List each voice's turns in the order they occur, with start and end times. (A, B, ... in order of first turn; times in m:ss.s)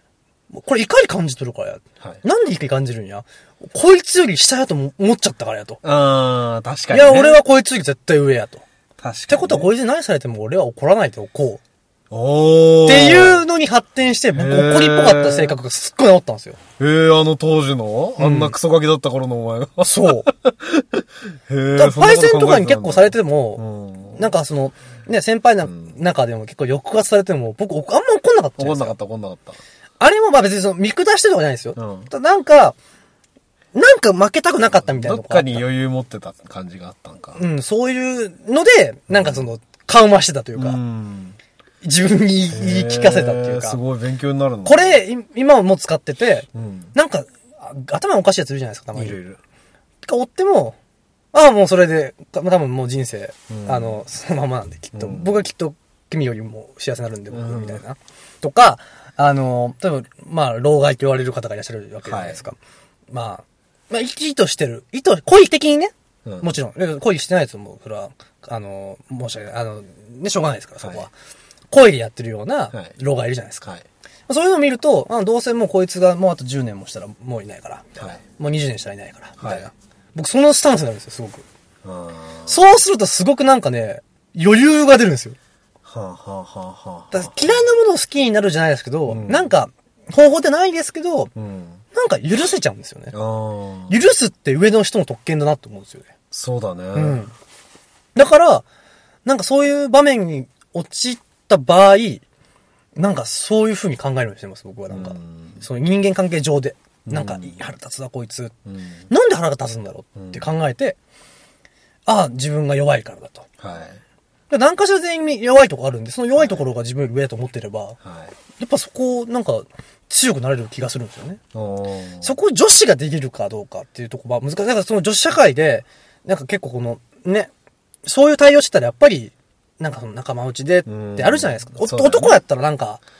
0:00.5-0:05.8 A
0:05.8-0:07.4 B
0:06.9-0:08.6 A
0:09.0-0:09.7 B
0:09.3-0:11.6 A
0:12.1-0:13.4 B
0:12.9-0:16.6 A
0:14.4-0:15.6 B
0:16.8-0:24.3 B
0:18.2-0:18.5 A
0:19.8-0:20.3 A
0:21.8-0:23.6 A
0:24.2-0:29.0 A
0:25.7-0:25.9 B
0:28.6-0:29.6 B
0:30.0-0:32.8 A
0:31.8-0:32.1 B
0:33.8-0:35.7 A
0:34.8-0:37.4 B
0:37.4-0:40.8 A
0:39.1-0:39.5 B
0:40.6-0:41.4 B
0:41.8-0:43.8 A
0:42.5-0:45.0 B
0:44.6-0:49.2 A
0:46.6-0:46.9 B
0:49.0-0:49.4 B
0:50.0-0:50.8 A
0:51.3-1:02.6 A
0:53.5-0:54.0 B
0:55.0-0:55.4 B
0:57.3-0:57.8 B
1:02.0-1:02.4 B
1:03.1-1:11.1 A
1:06.2-1:06.5 B
1:10.8-1:11.1 B
1:11.7-1:13.7 A
1:14.3-1:21.4 A
1:19.4-1:19.7 B
1:21.8-1:22.6 B
1:22.5-1:25.4 A
1:25.8-1:27.4 B
1:27.1-1:31.3 A
1:29.1-1:29.5 B
1:31.4-1:31.8 B
1:31.9-1:33.1 A
1:33.1-1:34.0 B
1:33.9-1:36.1 A
1:36.3-1:37.2 B
1:37.0-1:37.3 A
1:38.2-1:38.6 A
1:39.3-1:42.2 A
1:43.0-1:48.5 A
1:44.9-1:45.6 B
1:47.1-1:47.6 B
1:48.7-1:49.0 B
1:49.1-1:51.0 A
1:50.2-1:50.4 B
1:52.1-1:53.5 A
1:53.6-1:54.0 B
1:54.5-1:58.0 A
1:58.0-1:58.3 B
1:58.6-2:01.4 A
2:01.5-2:02.3 B
2:02.2-2:07.5 A
2:08.0-2:13.0 A
2:10.9-2:12.4 B